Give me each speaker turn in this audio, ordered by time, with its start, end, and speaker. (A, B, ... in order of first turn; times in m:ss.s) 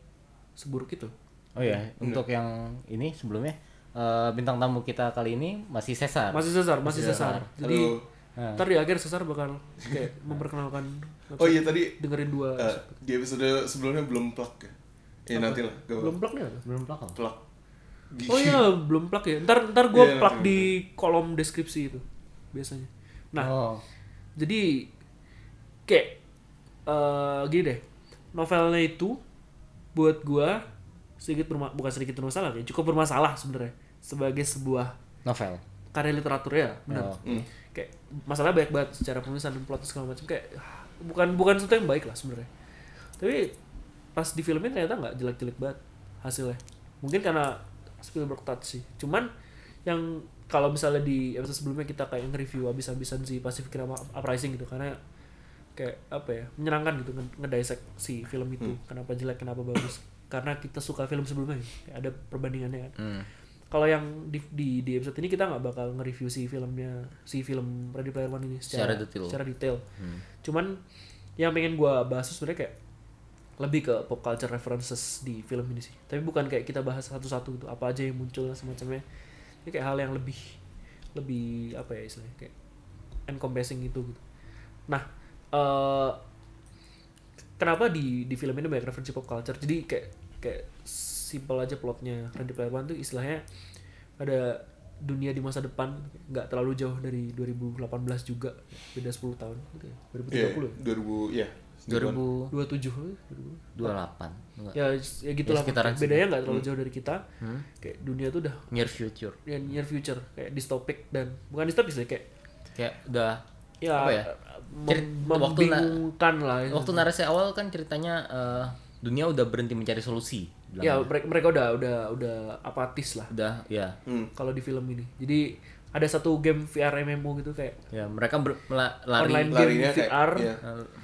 0:00.6-0:01.8 A
0:01.6-0:07.5 B
0:06.3-0:08.0 A
0:06.9-0:08.1 C
0:08.4-0:08.6 B
0:08.6-0:12.9 A
0:11.4-0:11.9 C
0:12.6-0:14.7 C
0:15.3-0:16.2 C
0:15.3-0:16.6 A
0:16.6-0:17.2 B
0:17.2-0:17.4 C
0:18.1-0:18.6 C
0:18.3-0:23.5 A
0:19.9-0:20.7 C
0:23.4-0:23.8 B
0:24.4-0:24.9 A
0:25.9-0:26.2 A
0:26.9-0:27.8 A
0:28.3-0:29.2 A
0:29.9-0:30.6 A
0:31.2-0:35.0 A
0:35.2-0:35.6 B
0:35.9-0:37.2 A
0:36.9-0:37.4 B
0:37.7-0:42.5 A
0:43.2-0:43.5 A
0:44.2-0:49.3 A
0:49.8-0:55.0 A
0:55.8-1:03.0 A
1:03.0-1:03.3 B
1:03.7-1:09.8 A
1:08.7-1:09.4 B
1:10.0-1:10.2 B
1:10.4-1:10.8 A
1:11.4-1:12.8 A
1:13.6-1:19.0 A
1:19.6-1:20.6 A
1:21.2-1:22.5 A
1:23.3-1:24.2 A
1:24.9-1:26.2 A
1:27.6-1:33.4 A
1:34.2-1:40.8 A
1:40.3-1:42.2 C
1:41.9-1:42.5 B
1:42.5-1:43.9 A
1:43.8-1:44.8 B
1:44.7-1:47.2 A
1:45.4-1:46.3 B
1:47.4-1:47.6 B
1:47.8-1:48.7 A
1:48.7-1:49.4 B
1:49.4-1:52.2 A
1:52.8-1:53.4 B
1:53.8-1:57.0 A
1:54.0-1:54.3 B
1:54.9-1:56.0 B
1:56.7-2:01.1 B
2:00.8-2:03.3 A
2:03.3-2:04.0 B
2:04.1-2:04.3 C
2:04.4-2:07.8 A
2:07.9-2:09.6 B
2:09.2-2:10.6 A
2:09.5-2:10.6 C
2:10.6-2:10.9 B